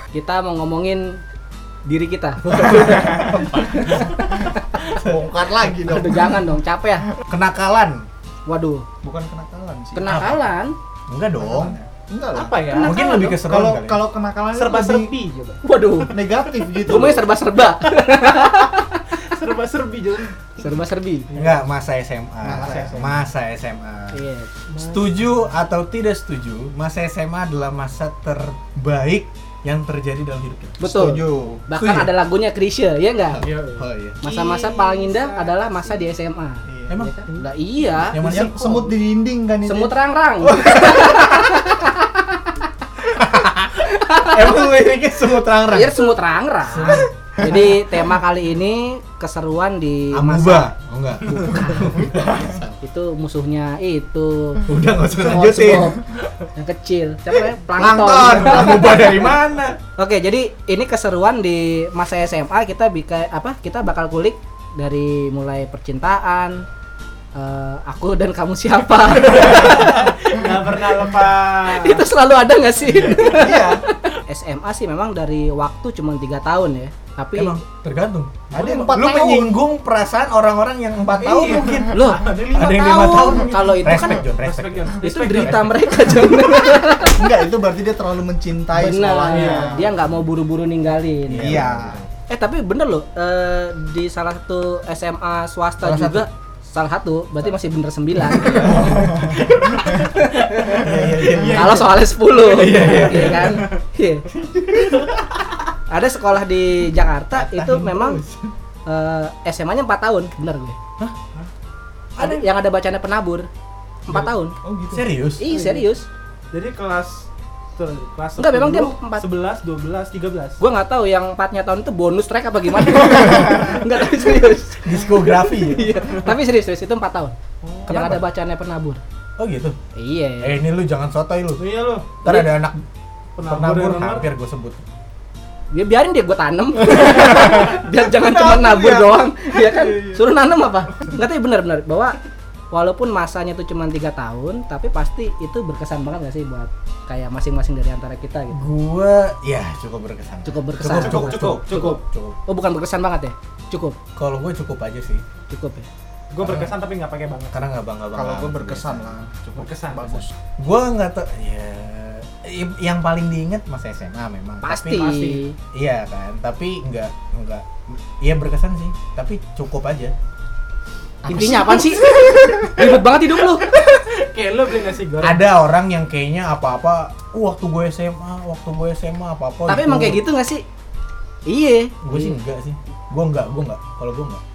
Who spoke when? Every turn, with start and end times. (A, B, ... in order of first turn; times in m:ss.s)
0:00.1-0:01.2 A
0:01.8-0:04.9 A
0:02.5-0:04.0 B
0:02.6-0:03.3 C
0:04.9-0:06.5 D
0:05.8-0:07.1 A
0:07.3-0:08.0 B
0:08.4-0:08.8 A
0:09.0-0:10.1 D
0:09.9-0:10.8 A
0:10.0-0:10.4 B
0:11.1-0:11.8 B
0:11.4-0:15.1 D
0:12.3-0:13.2 C
0:12.8-0:14.0 B
0:14.5-0:15.6 C
0:15.6-0:16.1 A
0:16.1-0:17.3 D
0:16.8-0:19.0 A
0:19.2-0:20.4 C
0:20.6-0:21.3 A
0:21.3-0:21.6 C
0:21.3-0:24.2 B
0:22.4-0:23.1 D
0:22.6-0:23.1 C
0:24.1-0:24.5 A
0:24.7-0:25.1 C
0:24.8-0:32.1 B
0:30.8-0:33.4 A
0:30.9-0:31.6 D
0:33.3-0:34.2 B
0:33.4-0:36.0 C
0:34.2-0:36.6 A
0:36.7-0:37.1 D
0:36.9-0:37.2 B
0:37.3-0:38.2 A
0:38.0-0:38.9 C
0:38.0-0:38.6 B
0:38.2-0:39.9 D
0:39.6-0:42.6 A
0:40.6-0:41.2 B
0:43.0-0:46.0 B
0:43.7-0:44.7 A
0:45.6-0:50.7 A
0:46.7-0:47.8 B
0:50.1-0:52.8 B
0:51.2-0:52.1 A
0:52.8-0:54.6 A
0:54.6-0:56.0 B
0:55.2-0:59.3 A
0:57.7-0:59.8 B
1:00.0-1:06.6 A
1:07.3-1:10.4 A
1:09.2-1:12.1 C
1:11.7-1:17.6 A
1:12.8-1:13.5 B
1:13.3-1:13.8 D
1:17.4-1:25.9 B
1:18.5-1:19.0 C
1:18.5-1:19.6 D
1:21.2-1:22.8 C
1:21.9-1:24.3 A
1:24.4-1:26.3 C
1:24.9-1:27.3 A
1:27.0-1:29.9 D
1:28.7-1:31.6 A
1:29.3-1:29.9 C
1:31.3-1:32.1 B
1:31.3-1:32.0 D
1:32.3-1:39.1 A
1:35.8-1:36.2 B
1:38.5-1:43.7 B
1:40.2-1:44.3 A
1:40.9-1:42.1 C
1:42.6-1:43.6 C
1:45.9-1:48.2 A
1:47.3-1:48.5 B
1:48.8-1:50.8 A
1:52.2-1:52.4 B
1:52.2-1:53.5 A
1:54.1-1:54.5 A
1:54.6-1:55.0 D
1:54.9-1:55.5 B
1:55.4-1:56.1 A
1:55.5-1:55.8 C
1:56.5-2:00.6 C
1:58.4-1:59.2 A
2:00.6-2:09.0 A
2:04.8-2:06.0 B
2:07.6-2:08.2 C
2:07.9-2:08.2 B
2:09.4-2:09.8 B
2:09.9-2:10.6 A
2:10.4-2:11.6 B
2:11.6-2:12.2 C
2:12.2-2:12.8 B
2:12.2-2:12.5 A
2:13.4-2:14.3 C
2:13.4-2:14.8 B
2:15.7-2:22.2 A
2:18.1-2:20.2 D
2:22.7-2:28.7 A
2:28.5-2:32.4 B
2:30.4-2:34.0 A
2:30.9-2:32.0 C
2:34.2-2:35.2 B
2:35.5-2:35.9 A
2:36.3-2:37.6 C
2:36.4-2:36.7 B
2:37.5-2:39.2 B
2:38.1-2:40.3 D
2:39.5-2:40.3 C
2:40.6-2:45.1 B
2:44.6-2:45.6 A
2:44.9-2:45.4 C
2:45.7-2:50.1 B
2:51.2-2:52.8 D
2:51.3-2:53.7 A
2:51.3-2:51.8 B
2:53.3-2:55.4 C
2:55.2-3:00.2 B
2:59.7-3:00.6 A
3:01.4-3:02.4 A
3:02.0-3:04.4 B